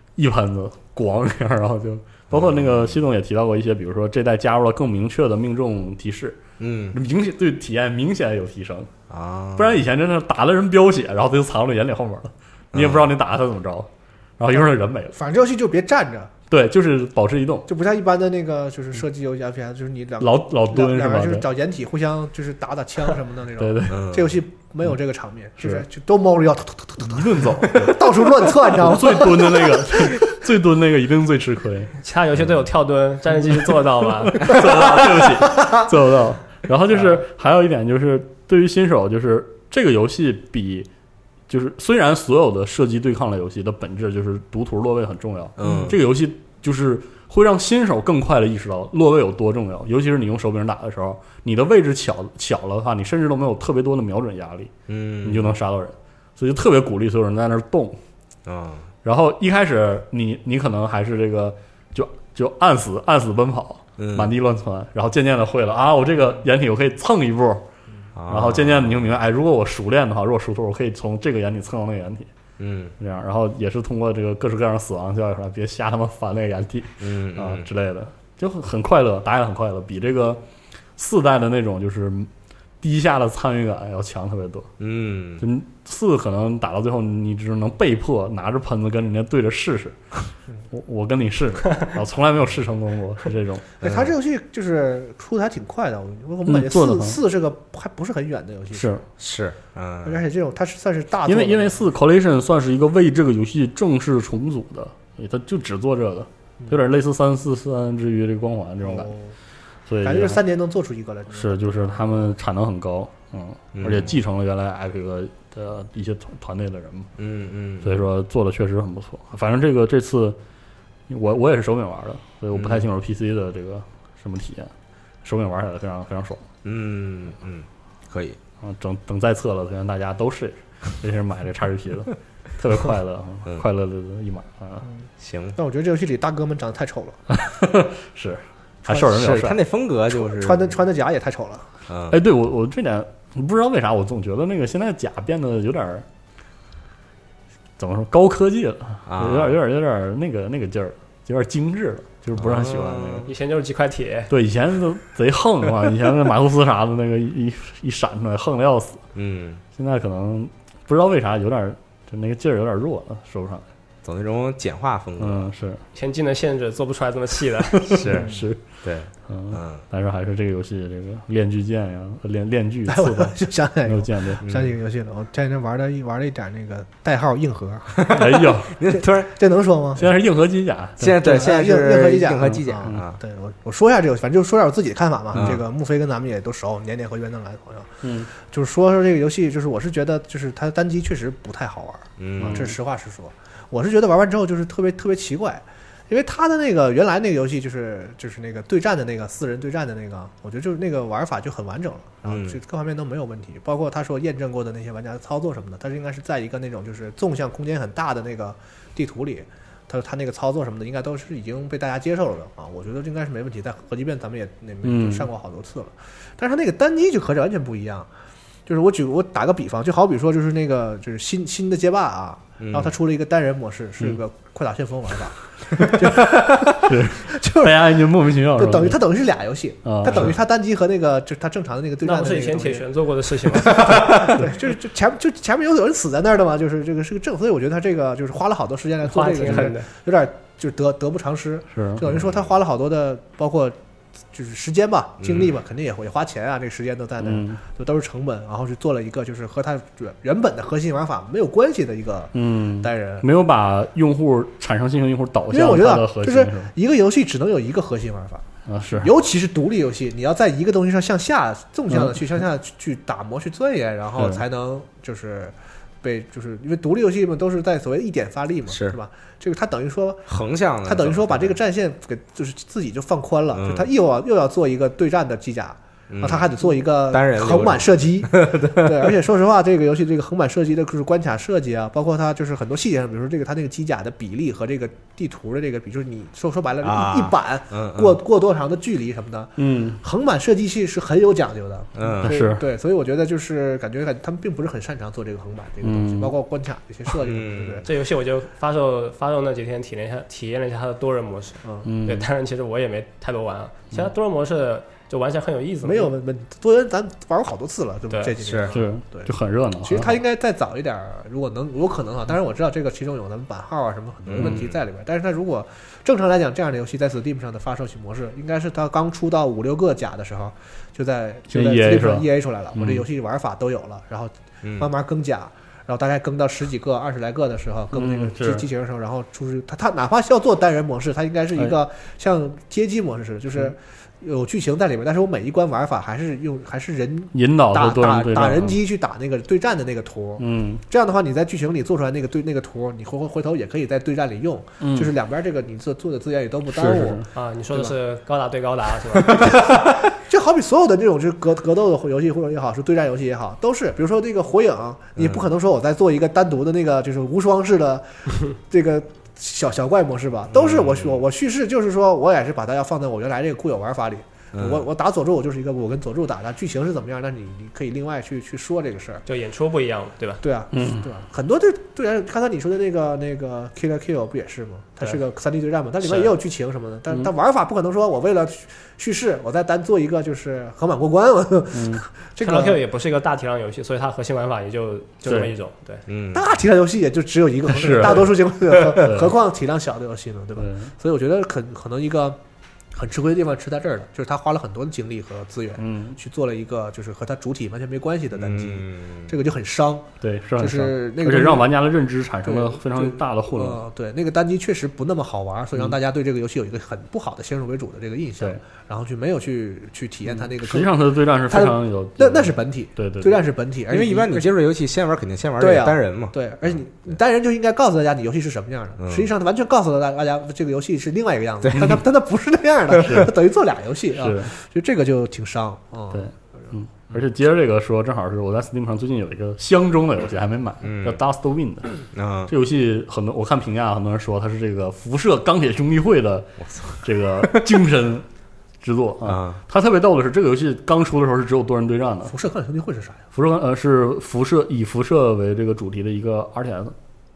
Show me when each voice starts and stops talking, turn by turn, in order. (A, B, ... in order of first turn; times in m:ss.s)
0:00.2-0:06.4 A
0:02.3-0:03.0 B
0:06.6-0:07.0 B
0:06.9-0:08.9 A
0:09.1-0:09.8 B
0:09.6-0:15.1 A
0:12.7-0:13.1 B
0:14.5-0:16.3 C
0:16.5-0:17.7 A
0:17.7-0:30.2 C
0:20.2-0:21.4 A
0:23.6-0:24.1 A
0:23.9-0:24.3 B
0:27.0-0:31.9 A
0:32.0-0:34.6 D
0:34.3-0:40.9 A
0:41.5-0:54.7 A
0:45.6-0:46.0 B
0:54.9-0:55.5 B
0:55.2-0:58.0 A
0:58.4-0:58.8 B
0:59.0-1:07.6 A
1:04.0-1:04.3 B
1:08.1-1:09.2 B
1:08.3-1:12.3 A
1:12.6-1:12.9 B
1:13.0-1:20.4 A
1:17.0-1:17.7 B
1:21.0-1:22.3 A
1:22.8-1:24.7 A
1:24.8-1:25.4 B
1:25.4-1:30.0 A
1:30.7-1:33.7 A
1:33.8-1:39.0 C
1:33.8-1:34.1 B
1:36.4-1:37.2 A
1:38.7-1:39.0 A
1:39.2-1:40.2 B
1:40.0-1:41.9 C
1:41.2-1:49.1 A
1:48.8-1:49.3 C
1:49.9-1:50.4 A
1:50.0-1:52.3 C
1:51.3-1:57.1 A
1:53.7-1:54.1 B
1:57.2-1:58.0 B
1:57.8-2:00.4 A
2:01.1-2:04.7 A
2:02.5-2:02.9 B
2:05.2-2:06.4 A
2:06.6-2:08.4 B
2:08.6-2:14.8 A
2:14.8-2:17.2 C
2:15.2-2:15.6 B
2:17.3-2:19.6 A
2:18.9-2:20.8 B
2:20.1-2:21.7 C
2:21.9-2:22.2 B
2:22.1-2:26.0 A
2:27.8-2:33.3 A
2:29.1-2:29.6 B
2:32.3-2:33.3 B
2:33.2-2:34.3 D
2:34.3-2:39.0 A
2:39.1-2:39.6 B
2:39.7-2:43.6 A
2:44.0-2:45.5 B
2:45.2-2:45.8 A
2:45.9-2:48.0 D
2:47.8-2:48.6 A
2:47.9-2:49.8 B
2:48.1-2:48.4 C
2:49.3-2:53.4 A
2:52.9-2:58.0 C
2:53.9-2:54.4 A
2:54.4-2:54.7 B
2:58.0-2:59.3 B
2:58.1-2:58.8 A
2:58.9-3:00.1 C
3:00.0-3:01.2 A
3:01.0-3:03.2 B
3:01.2-3:38.1 C
3:05.3-3:05.6 B
3:08.0-3:08.3 A
3:12.2-3:12.7 B
3:12.4-3:12.7 A
3:22.2-3:22.6 B
3:34.8-3:35.3 A
3:38.7-3:52.8 C
3:42.6-3:42.9 B
3:46.8-3:49.0 A
3:49.8-3:50.3 A
3:52.0-3:54.1 D
3:53.4-4:03.7 C
3:59.0-3:59.9 D
4:01.7-4:02.0 A
4:02.1-4:02.5 B
4:04.3-4:13.2 C
4:05.2-4:05.5 B
4:07.2-4:07.6 A
4:12.3-4:16.7 A
4:15.5-4:18.4 C
4:18.7-4:19.1 A
4:19.0-4:30.3 C
4:21.9-4:22.2 A
4:24.2-4:24.4 A
4:28.7-4:28.9 B
4:30.3-4:31.6 B
4:30.8-4:57.8 C
4:33.5-4:33.9 B
4:36.1-4:39.1 B
4:46.8-4:48.2 B
4:49.6-4:50.0 A
4:52.0-4:52.4 B
4:52.2-4:52.6 A
4:55.8-4:56.3 A
4:57.2-4:57.8 B
4:57.8-5:06.1 D
5:01.6-5:01.9 C
5:01.8-5:02.3 A
5:05.8-5:09.3 C
5:08.1-5:08.3 D
5:08.4-5:08.7 B
5:08.7-5:10.2 A
5:09.8-5:47.9 C
5:14.2-5:14.8 B
5:21.5-5:23.0 A
5:24.6-5:24.9 B
5:27.9-5:28.6 A
5:37.3-5:38.8 A
5:40.4-5:40.8 A
5:44.8-5:45.1 A
5:46.7-5:47.2 A
5:47.3-5:49.5 D
5:49.2-6:09.2 C
5:55.2-5:55.4 B
6:00.5-6:01.2 B
6:04.5-6:04.9 B
6:09.2-6:10.4 D
6:10.4-6:22.8 C
6:10.7-6:11.0 A
6:21.7-6:22.0 A
6:22.4-6:26.0 D
6:25.2-6:25.5 A
6:26.1-6:26.4 B
6:26.3-6:32.4 C
6:27.7-6:28.4 A
6:29.0-6:29.4 A
6:30.6-6:30.9 A
6:32.9-6:41.7 C
6:35.8-6:36.2 A
6:38.3-6:39.3 B
6:40.2-6:43.8 A
6:42.4-6:54.5 C
6:50.3-6:53.4 A
6:53.9-6:56.7 B
6:55.6-7:07.2 C
6:59.0-6:59.3 B
7:01.6-7:02.0 B
7:03.0-7:03.3 A
7:04.2-7:04.5 A
7:06.1-7:16.5 A
7:10.8-7:11.2 B
7:12.1-7:12.5 B
7:16.7-7:17.6 B
7:17.0-7:18.2 A
7:18.8-7:22.3 A
7:19.2-7:19.6 B
7:22.3-7:23.2 C
7:23.3-7:26.9 A